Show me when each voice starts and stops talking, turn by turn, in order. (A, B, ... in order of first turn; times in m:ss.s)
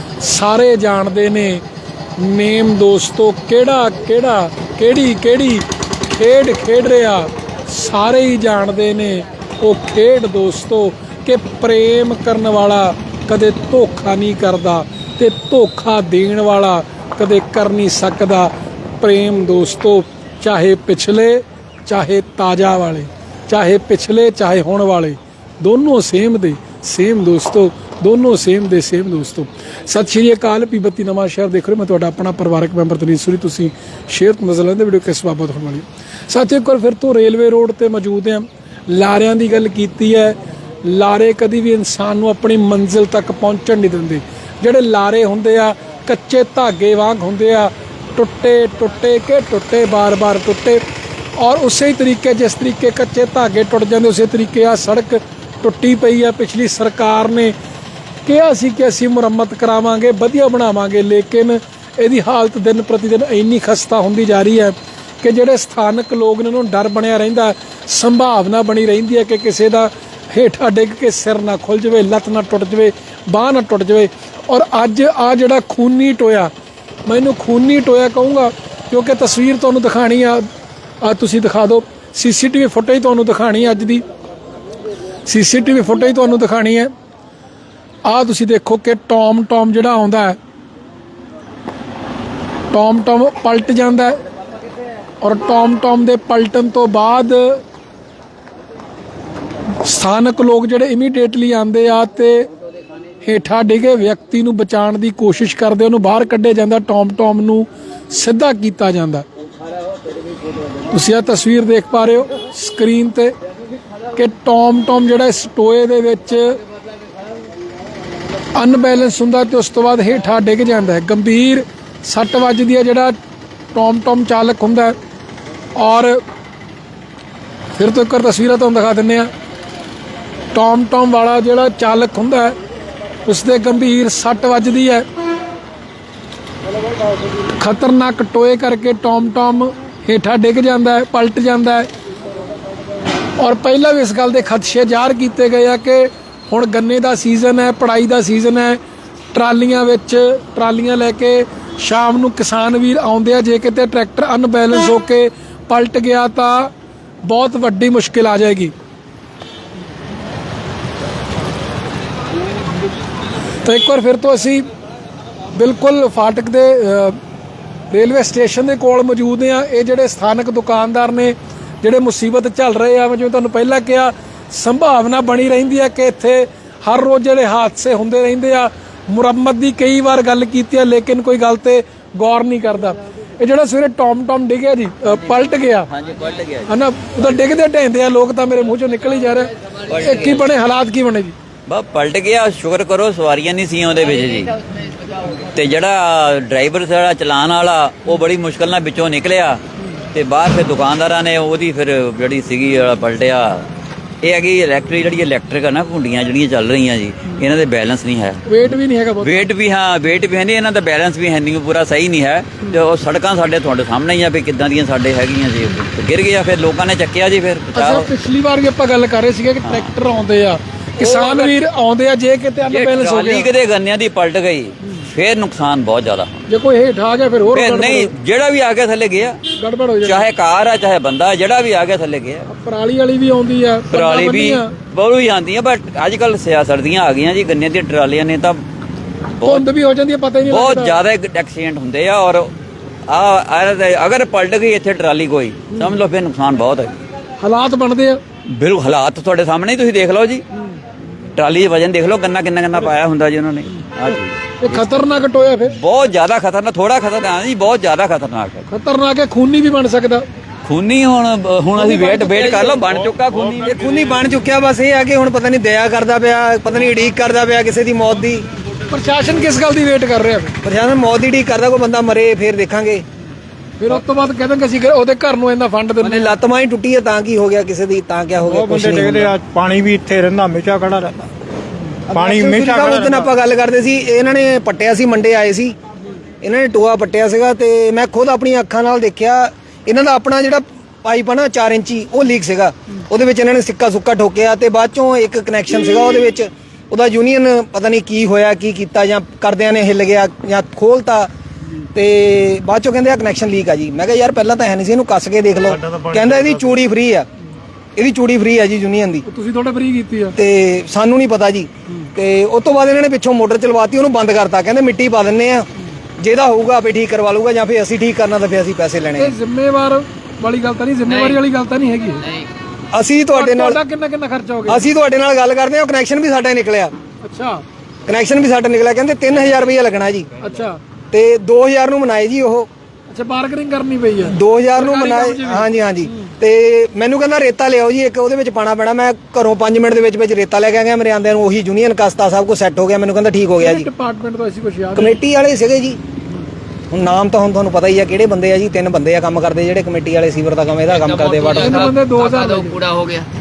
0:00.2-0:01.6 A
0:02.2-0:05.6 A
0:06.2-0:50.8 A
0:51.4-0:57.5 A
0:58.2-1:16.5 A
1:17.1-1:20.5 A
1:21.0-1:24.0 A
1:25.3-1:26.9 A
1:28.1-1:30.4 A
1:32.7-1:34.2 A
1:35.2-1:37.6 A
1:39.8-1:42.5 A
1:43.2-1:49.2 A
1:50.9-1:53.3 A
1:54.2-1:56.6 A
1:58.6-2:03.2 A
2:03.7-2:05.0 A
2:05.8-2:06.2 A
2:07.8-2:09.3 A
2:10.5-2:12.6 A
2:13.3-2:15.0 A
2:17.6-2:21.9 A
2:23.4-2:28.8 A
2:29.3-2:36.7 A
2:37.2-2:38.7 A
2:43.6-2:44.6 A
2:45.6-2:47.2 A
2:47.9-3:05.9 A
3:05.9-3:06.7 B
3:06.7-3:11.4 A
3:09.9-3:10.5 B
3:11.7-3:14.6 B
3:15.4-3:19.6 B
3:20.1-3:23.7 B
3:24.2-3:28.6 B
3:28.5-3:29.5 A
3:29.2-3:38.1 B
3:37.8-3:43.5 A
3:39.6-3:39.9 B
3:41.0-3:41.5 B
3:42.7-3:46.3 B
3:46.5-3:48.1 A
3:47.5-3:49.4 B
3:49.6-3:50.3 A
3:50.0-3:52.5 B
3:52.5-3:54.7 A
3:53.9-3:58.6 B
3:59.4-3:59.7 B
3:59.4-4:01.0 A
4:00.5-4:02.5 B
4:03.1-4:07.0 B
4:07.4-4:08.2 A
4:08.5-4:10.4 B
4:11.4-4:15.0 B
4:14.6-4:15.8 A
4:15.7-4:18.7 B
4:18.7-4:20.2 A
4:20.6-4:24.1 B
4:21.8-4:22.8 A
4:23.7-4:28.4 C
4:28.9-4:30.5 A
4:30.6-4:33.0 C
4:33.8-4:36.3 A
4:36.0-4:39.3 C
4:38.4-4:41.3 D
4:42.1-4:43.3 D
4:42.1-4:45.8 C
4:46.4-5:01.3 C
5:01.9-5:07.3 C
5:08.0-5:09.2 C
5:09.3-5:10.4 A
5:10.4-5:15.7 C
5:16.2-5:19.3 C
5:19.2-5:22.3 A
5:22.9-5:23.8 C
5:23.3-5:24.8 A
5:24.7-5:26.9 C
5:27.2-5:27.6 A
5:28.1-5:30.3 C
5:30.4-5:30.8 A
5:31.1-5:32.7 C
5:33.1-5:35.7 A
5:34.2-5:43.9 C
5:43.6-5:45.2 A
5:45.0-5:46.0 C
5:46.9-5:51.9 C
5:50.9-5:53.2 E
5:51.5-5:52.8 A